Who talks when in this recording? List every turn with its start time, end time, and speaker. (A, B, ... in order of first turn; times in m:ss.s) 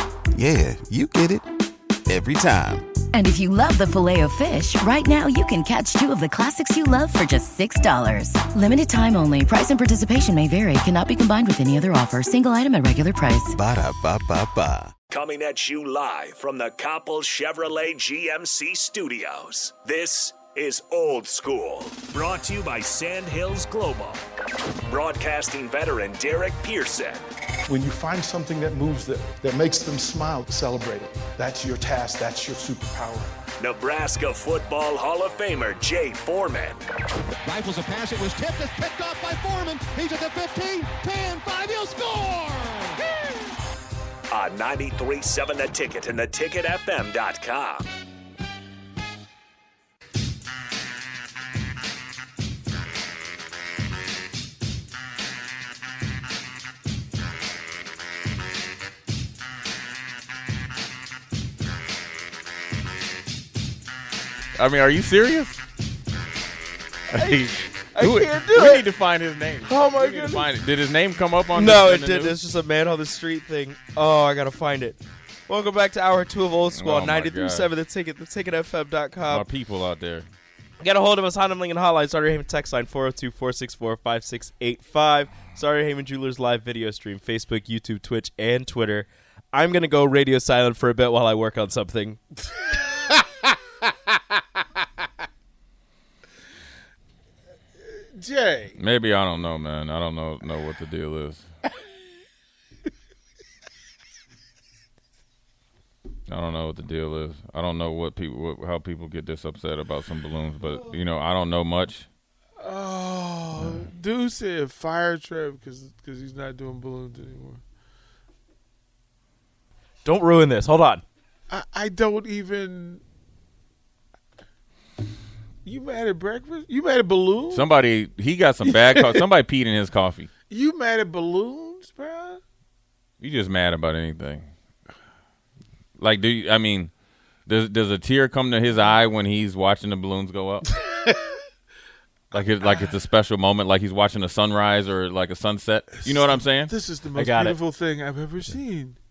0:00.3-0:01.4 A
0:02.1-0:02.8 A
0:03.1-0:13.6 B
0:13.5-0:14.9 A
0:15.1-0:24.2 C
0:24.8-0:27.2 C
0:27.7-0:33.3 D
0:33.6-0:36.8 C
0:37.4-0:43.0 E
0:44.3-0:47.9 C
1:04.6-1:05.6 F
1:07.1-1:08.8 G
1:07.1-1:12.4 F
1:09.7-1:10.5 G
1:11.5-1:19.4 G
1:16.7-1:17.7 F
1:19.2-1:20.3 F
1:20.8-1:32.2 G
1:38.2-1:38.8 D
1:38.8-1:41.4 F
1:46.3-1:52.1 F
1:52.6-1:57.6 D
2:00.0-2:01.0 G
2:01.5-2:03.0 D
2:05.6-2:07.6 D
2:07.5-2:10.3 F
2:08.7-2:09.2 D
2:10.5-2:12.4 D
2:13.2-2:14.5 F
2:16.0-2:16.9 F
2:17.5-2:20.8 F
2:20.8-2:21.4 D
2:22.3-2:26.7 F
2:26.7-2:29.0 D
2:27.2-2:27.6 G